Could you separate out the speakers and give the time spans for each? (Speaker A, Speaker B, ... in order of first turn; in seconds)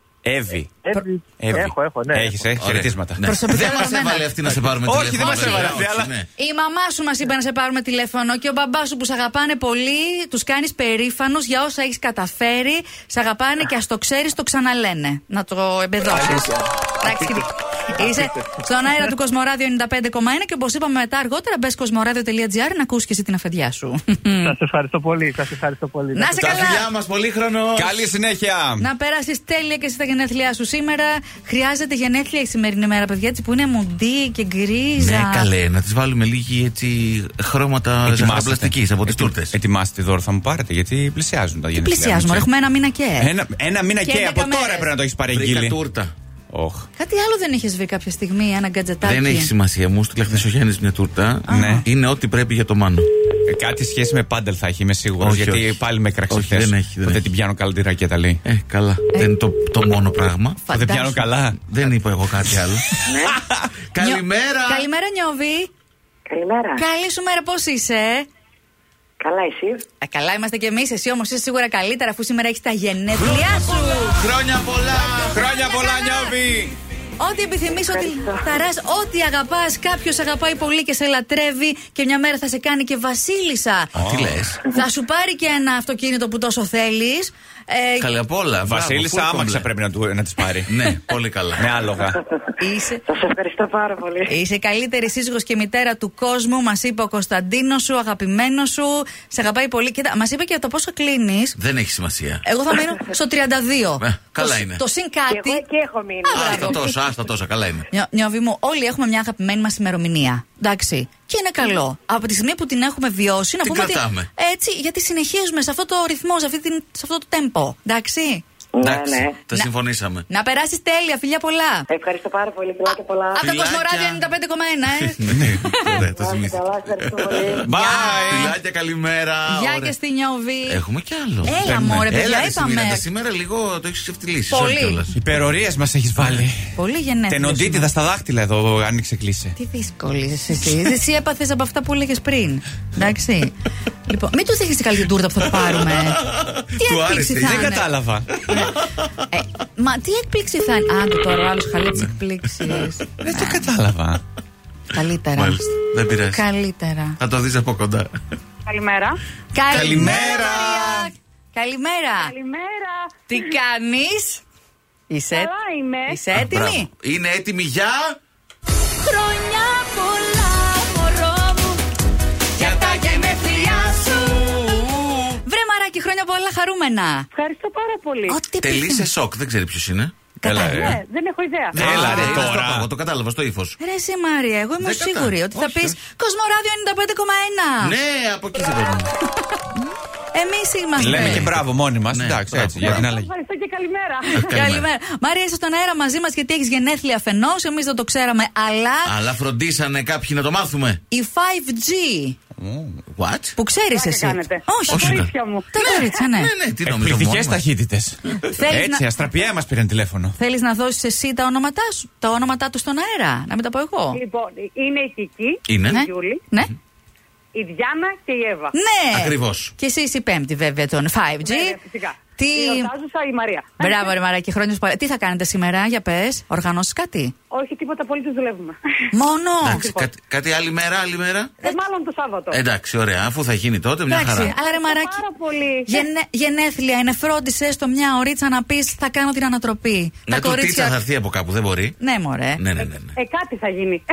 Speaker A: 0.2-0.8, 1.4-6.1, 27.7-28.8, 38.0-42.5, 43.2-45.8, 46.5-46.9, 51.5-51.9, 53.5-58.4, 60.7-61.6, 63.1-63.6, 75.3-76.7, 84.0-84.5, 88.7-90.7, 91.6-92.2, 127.6-128.5, 131.5-132.1, 135.1-136.7, 137.3-139.5, 147.4-148.3, 153.2-154.2, 159.7-161.1, 180.4-181.0, 181.7-182.9, 190.9-193.3, 202.6-203.0, 206.8-210.4
Speaker B: 0.8-2.5, 16.1-18.5, 24.4-26.5
Speaker C: 2.6-6.3, 26.4-28.1, 35.0-39.5, 45.3-46.1, 49.0-53.1, 55.2-57.2, 58.4-60.6, 61.6-62.9, 63.9-64.8, 74.2-75.3, 83.9-84.7, 88.0-89.7, 90.7-91.7, 101.6-102.5, 104.0-104.8, 106.3-107.8, 113.6-114.3, 118.8-120.2, 123.4-124.2, 125.0-129.9, 130.7-135.2, 145.8-147.8, 148.6-149.1, 155.3-156.4, 157.2-158.1, 159.7-160.2, 166.3-168.2, 172.6-175.3, 178.6-180.2, 181.7-183.8, 184.8-186.0, 187.8-189.1, 191.0-193.1, 194.3-194.9, 199.0-201.0, 203.2-203.5, 204.9-207.6, 215.7-216.1, 219.1-219.7, 229.6-231.6, 232.5-234.5, 240.3-242.0, 242.6-243.2
Speaker D: 3.2-4.3, 5.2-5.8, 6.4-24.6, 26.1-26.9, 28.8-35.5, 41.7-43.3, 44.0-44.9, 47.0-49.5, 51.5-51.9, 60.6-61.3, 64.0-65.7, 66.8-68.3, 70.0-74.2, 75.3-76.3, 77.2-83.9, 84.6-88.1, 92.6-93.0, 94.3-101.6, 102.4-105.6, 106.3-106.9, 107.9-118.4, 120.3-121.8, 122.9-126.0, 127.8-128.5, 129.5-130.8, 131.4-133.0, 134.5-135.0, 136.8-137.9, 139.6-143.5, 144.1-146.2, 146.8-147.9, 148.5-148.7, 149.3-153.7, 154.9-157.2, 159.5-162.3, 163.3-164.4, 165.1-165.5, 166.1-166.9, 169.0-171.8, 172.5-174.7, 175.4-177.3, 178.3-179.1, 180.4-180.9, 182.0-182.3, 183.8-187.9, 190.3-191.5, 194.5-199.2, 201.1-202.4, 203.6-206.5, 208.5-209.1, 210.4-214.2, 215.9-216.7, 218.7-221.8, 222.4-222.9, 223.8-227.3, 229.1-229.8, 234.1-235.2, 235.9-241.0, 242.0-242.6
Speaker E: 66.3-66.8, 69.2-69.8, 93.1-93.9, 105.5-106.3, 121.9-123.2
Speaker F: 158.7-159.2, 162.2-163.4, 165.3-166.2, 177.3-178.4, 180.4-181.8, 192.9-194.4, 203.9-205.7, 214.1-216.4, 217.5-218.7, 221.4-224.1, 227.5-228.8, 229.7-230.1, 231.6-232.6, 234.4-236.1, 243.1-244.0